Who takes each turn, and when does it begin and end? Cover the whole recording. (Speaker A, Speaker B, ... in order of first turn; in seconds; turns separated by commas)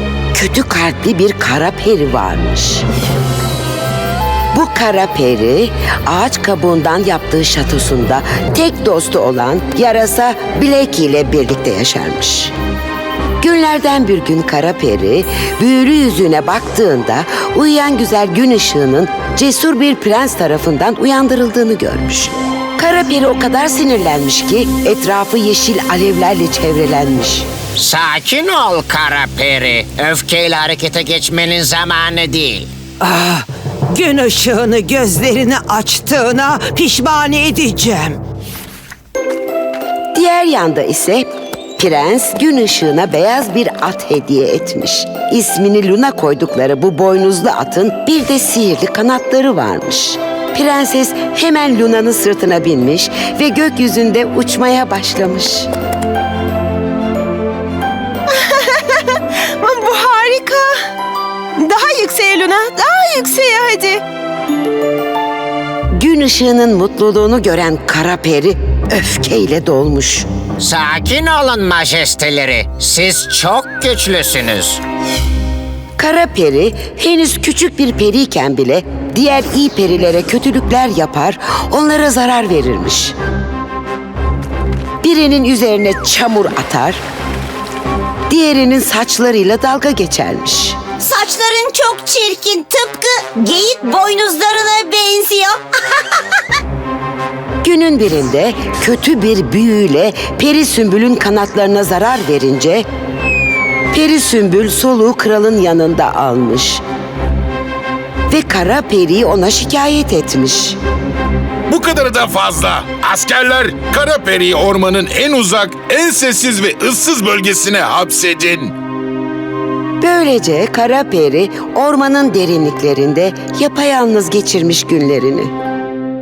Speaker A: 0.3-2.9, Speaker A: 4.5-12.5, Speaker A: 13.4-27.5, Speaker B: 27.8-32.7, Speaker C: 33.0-38.2, Speaker A: 40.1-55.7, Speaker D: 58.3-60.7, Speaker D: 61.6-64.0, Speaker A: 66.0-70.3, Speaker B: 70.6-74.8, Speaker A: 76.0-83.2, Speaker A: 85.0-87.0, Speaker A: 88.3-90.8, Speaker E: 91.0-95.6, Speaker A: 97.6-102.8, Speaker A: 103.9-106.8, Speaker A: 108.3-110.8, Speaker F: 111.7-118.7, Speaker A: 120.0-125.5